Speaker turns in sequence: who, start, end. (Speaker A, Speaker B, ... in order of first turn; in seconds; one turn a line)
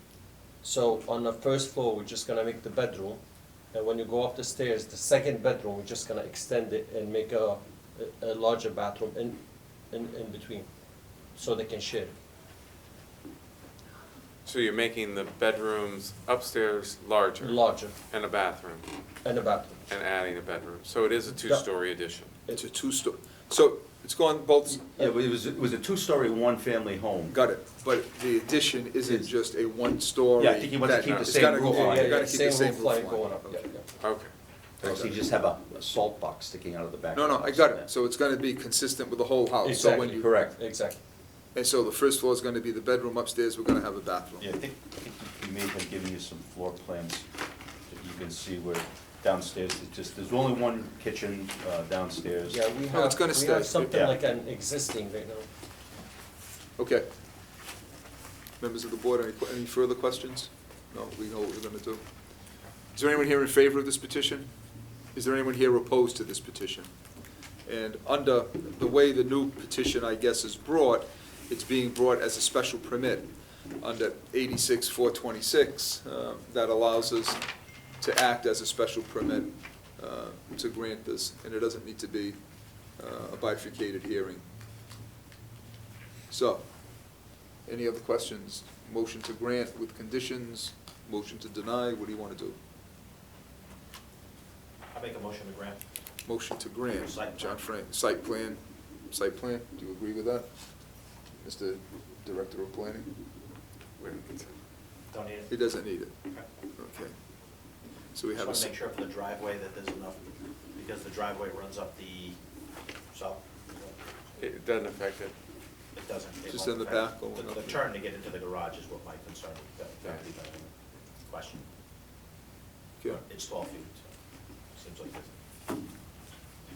Speaker A: 0.6-3.2
Speaker A: 3.7-10.7
Speaker A: 11.3-12.2
Speaker B: 14.5-18.9
Speaker A: 17.4-18.0
Speaker A: 19.2-19.8
Speaker B: 19.9-22.3
Speaker A: 21.3-21.6
Speaker C: 22.5-25.0
Speaker D: 25.0-27.4
Speaker C: 27.3-33.6
Speaker D: 30.4-32.1
Speaker A: 31.3-33.9
Speaker B: 34.0-34.3
Speaker D: 34.8-37.9
Speaker C: 34.8-35.1
Speaker C: 37.1-40.3
Speaker A: 39.6-41.0
Speaker D: 39.9-40.5
Speaker C: 41.5-44.5
Speaker D: 44.4-47.3
Speaker D: 47.9-52.6
Speaker A: 52.5-55.5
Speaker C: 52.9-53.9
Speaker D: 53.9-54.2
Speaker C: 56.8-57.1
Speaker C: 58.6-62.0
Speaker C: 63.0-64.5
Speaker C: 65.2-66.9
Speaker C: 67.7-73.3
Speaker C: 73.8-77.4
Speaker C: 78.0-82.4
Speaker C: 83.0-84.4
Speaker C: 86.3-86.7
Speaker C: 87.7-92.6
Speaker E: 94.9-95.8
Speaker C: 96.3-100.5
Speaker E: 96.9-97.6
Speaker C: 101.4-103.1
Speaker B: 104.0-104.5
Speaker E: 105.1-105.7
Speaker C: 105.5-106.1
Speaker C: 106.8-107.1
Speaker C: 108.2-108.8
Speaker E: 108.3-112.4
Speaker E: 113.1-114.0
Speaker B: 114.4-115.3
Speaker E: 116.0-120.7
Speaker C: 116.5-117.9
Speaker E: 121.2-121.7
Speaker E: 123.1-124.1
Speaker E: 124.8-125.4